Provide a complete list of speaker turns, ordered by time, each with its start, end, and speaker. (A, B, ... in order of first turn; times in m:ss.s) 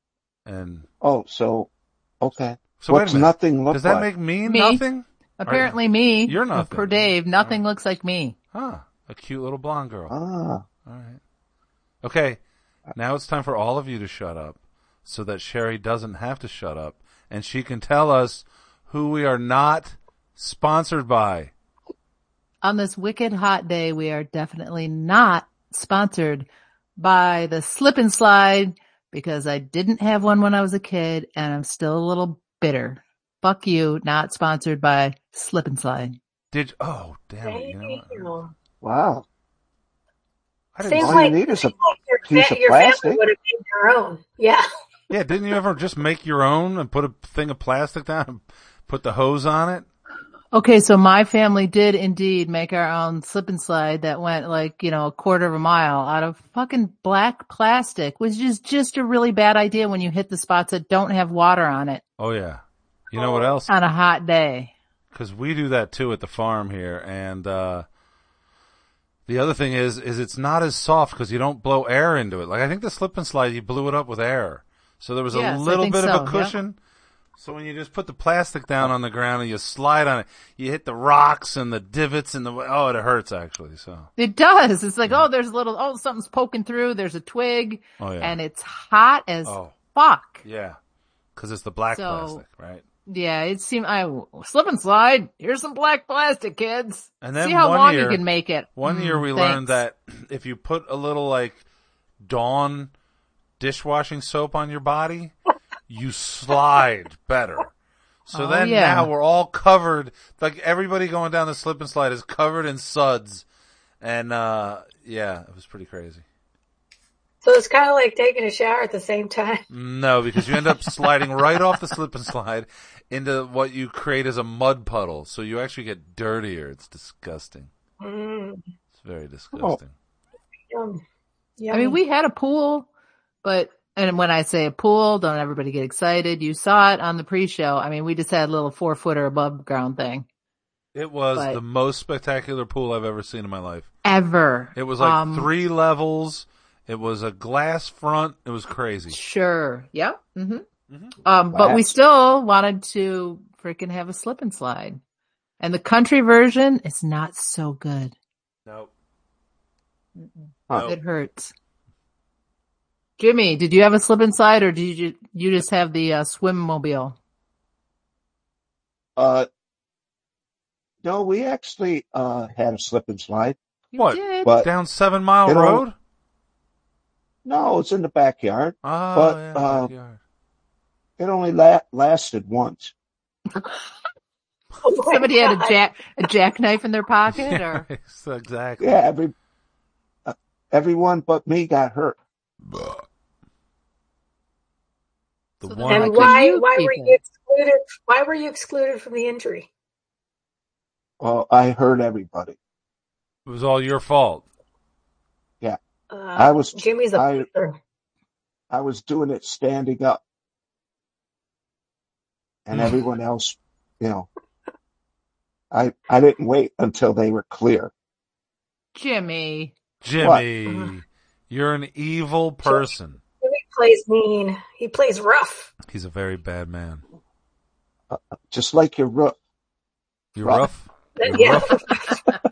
0:00.4-0:00.8 A
0:01.0-0:01.7 B
0:02.2-0:04.1 B
0:02.8-0:07.6 A
0:04.5-0:04.8 C
0:05.4-0:08.4 C
0:08.5-0:10.1 A
0:10.1-0:10.6 B
0:10.8-0:11.2 A
0:12.0-0:12.4 A
0:12.9-0:21.5 A
0:22.6-0:36.2 C
0:36.5-0:38.3 A
0:37.4-0:38.5 D
0:38.8-0:39.2 B
0:40.7-0:41.3 A
0:40.8-0:44.6 D
0:40.9-0:43.2 B
0:45.1-0:49.8 A
0:50.5-1:02.0 C
1:02.2-1:03.7 A
1:03.1-1:03.5 D
1:03.7-1:04.7 C
1:05.1-1:07.8 A
1:09.3-1:16.8 A
1:15.3-1:16.5 C
1:17.4-1:24.1 A
1:24.2-1:30.4 C
1:28.0-1:28.4 A
1:29.4-1:29.7 A
1:30.4-1:30.8 A
1:31.4-1:32.8 A
1:31.9-1:32.4 C
1:33.1-1:39.8 C
1:37.2-1:38.2 A
1:38.8-1:41.6 A
1:42.2-1:42.9 A
1:43.6-1:45.3 A
1:45.9-1:47.7 A
1:48.2-1:53.4 A
1:48.3-1:49.1 C
1:54.0-1:56.2 A
1:57.4-1:59.6 D
1:59.7-2:07.7 A
2:08.0-2:08.6 D
2:09.0-2:09.9 A
2:10.7-2:11.0 D
2:11.6-2:12.0 D
2:11.7-2:12.9 C
2:13.4-2:20.2 C
2:20.9-2:23.9 A
2:24.0-2:25.5 C
2:24.7-2:29.2 A
2:29.1-2:30.6 C
2:30.9-2:31.1 A
2:31.2-2:35.0 C
2:31.5-2:31.9 B
2:35.6-2:38.1 C
2:40.2-2:41.5 C
2:43.2-2:47.2 C
2:49.2-2:49.5 B
2:51.0-2:53.6 B
2:53.9-2:54.5 C
2:54.0-2:55.9 A
2:55.4-2:55.8 B
2:57.4-2:59.9 B
2:58.8-3:00.2 A
3:01.2-3:02.9 B
3:04.8-3:05.8 D
3:05.1-3:07.8 C
3:07.3-3:09.0 A
3:08.8-3:09.3 B
3:10.2-3:12.2 B
3:12.7-3:13.0 A
3:15.6-3:16.4 A
3:15.6-3:17.2 C
3:15.9-3:19.7 D
3:21.2-3:22.6 B
3:23.4-3:24.4 A
3:26.1-3:27.8 D
3:26.4-3:27.4 B
3:28.7-3:30.2 B
3:32.6-3:34.3 B
3:32.7-3:33.0 A
3:35.7-3:37.9 B
3:38.9-3:39.7 C
3:40.0-3:43.2 A
3:40.2-3:40.4 B
3:42.6-3:42.9 D
3:43.4-3:45.7 D
3:45.9-3:47.0 A
3:48.1-3:49.4 B
3:50.4-3:51.8 A
3:50.4-3:50.7 B
3:51.2-3:52.2 D